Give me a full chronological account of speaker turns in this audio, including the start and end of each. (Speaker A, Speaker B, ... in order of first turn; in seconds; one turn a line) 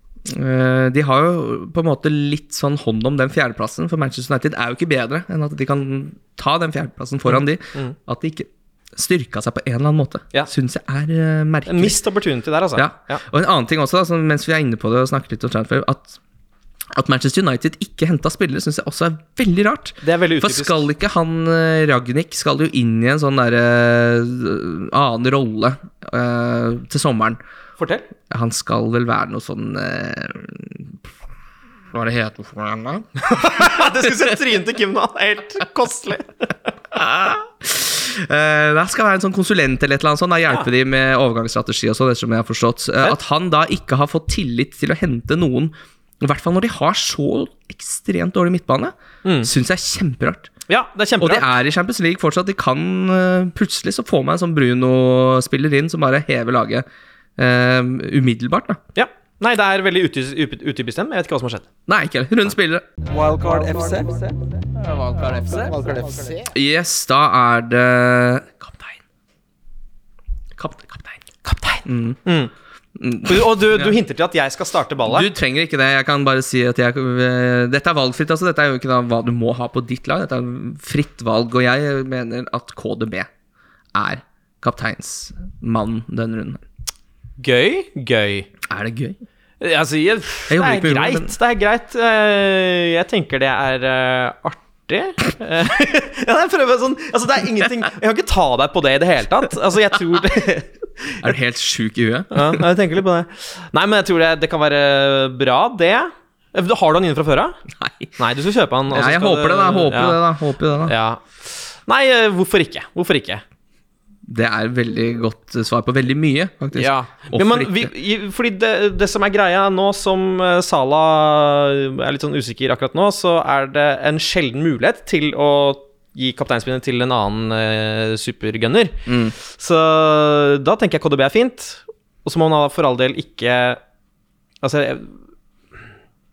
Speaker A: 0.2-12.0
Speaker B: 7.3-8.0
Speaker B: 11.7-13.2
Speaker A: 12.8-16.2
Speaker A: 16.9-27.4
Speaker B: 20.0-20.8
Speaker B: 27.8-28.1
Speaker A: 28.3-31.0
Speaker A: 31.9-33.8
Speaker B: 33.2-36.5
Speaker A: 36.9-50.5
Speaker B: 49.2-49.5
Speaker B: 50.7-51.5
Speaker A: 51.2-56.9
Speaker A: 57.4-58.8
Speaker B: 59.0-61.7
Speaker A: 61.9-62.9
Speaker C: 63.0-66.5
Speaker A: 66.5-68.8
Speaker A: 70.6-71.2
Speaker B: 71.4-72.5
Speaker A: 71.8-72.2
Speaker A: 73.0-74.0
Speaker B: 73.3-75.3
Speaker A: 75.1-83.3
Speaker A: 83.9-86.6
Speaker B: 87.4-88.5
Speaker A: 88.7-89.2
Speaker B: 89.6-101.2
Speaker A: 90.5-91.3
Speaker A: 101.2-102.6
Speaker B: 102.3-107.6
Speaker A: 107.8-108.1
Speaker B: 108.2-110.2
Speaker A: 108.9-110.9
Speaker B: 110.8-113.4
Speaker A: 114.3-117.9
Speaker B: 116.8-133.8
Speaker A: 129.1-129.3
Speaker B: 134.6-135.2